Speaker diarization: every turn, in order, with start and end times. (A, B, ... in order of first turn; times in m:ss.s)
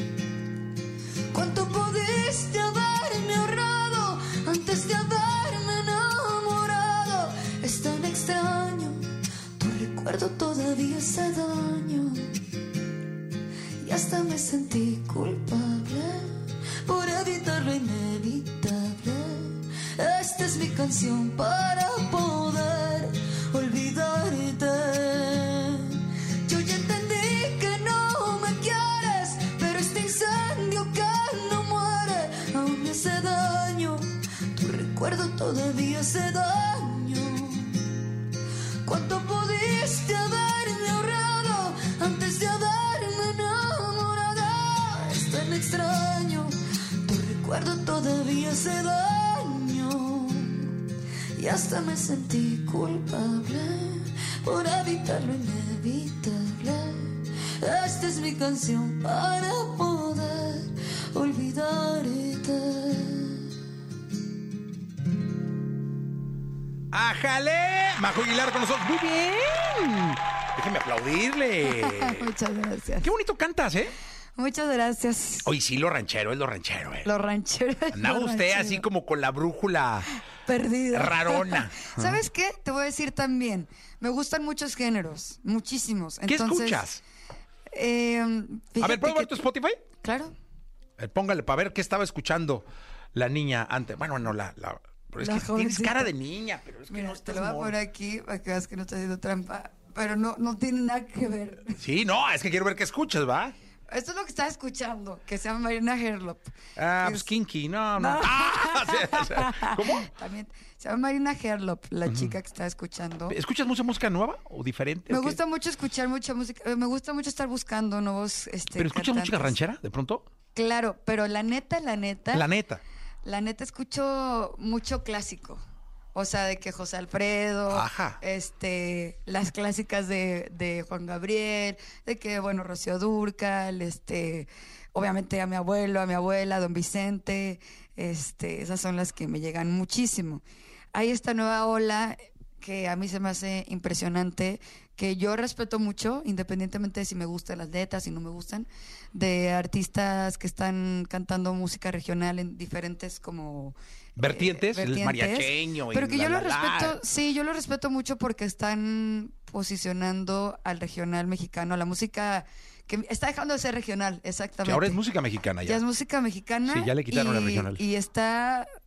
0:01.3-0:09.0 A
0:09.6-0:12.3 A
0:13.8-0:37.8 A
0:38.8-0:50.8 A
0:51.4-1:03.5 A
1:06.9-1:12.3 B
1:11.7-1:13.1 C
1:13.0-1:14.0 B
1:14.4-1:15.5 C
1:15.4-1:17.1 B
1:17.0-1:18.8 C
1:17.9-1:20.1 B
1:20.5-1:26.9 C
1:20.9-1:22.2 B
1:26.3-1:27.0 B
1:27.7-1:29.4 C
1:28.8-1:29.8 B
1:30.0-1:30.3 C
1:31.0-1:37.8 B
1:35.2-1:36.1 C
1:36.9-1:41.8 C
1:41.8-1:43.6 B
1:43.9-1:47.3 C
1:46.8-1:50.1 B
1:48.0-1:53.4 C
1:52.1-1:52.3 B
1:53.3-1:55.4 B
1:55.1-1:59.6 C
1:58.8-2:00.3 B
2:00.6-2:02.5 C
2:02.3-2:02.8 B
2:03.2-2:05.6 C
2:06.2-2:20.4 C
2:07.7-2:08.2 B
2:20.9-2:45.0 C
2:34.2-2:37.0 B
2:44.6-2:45.8 B
2:45.6-2:48.7 C
2:46.7-2:47.8 B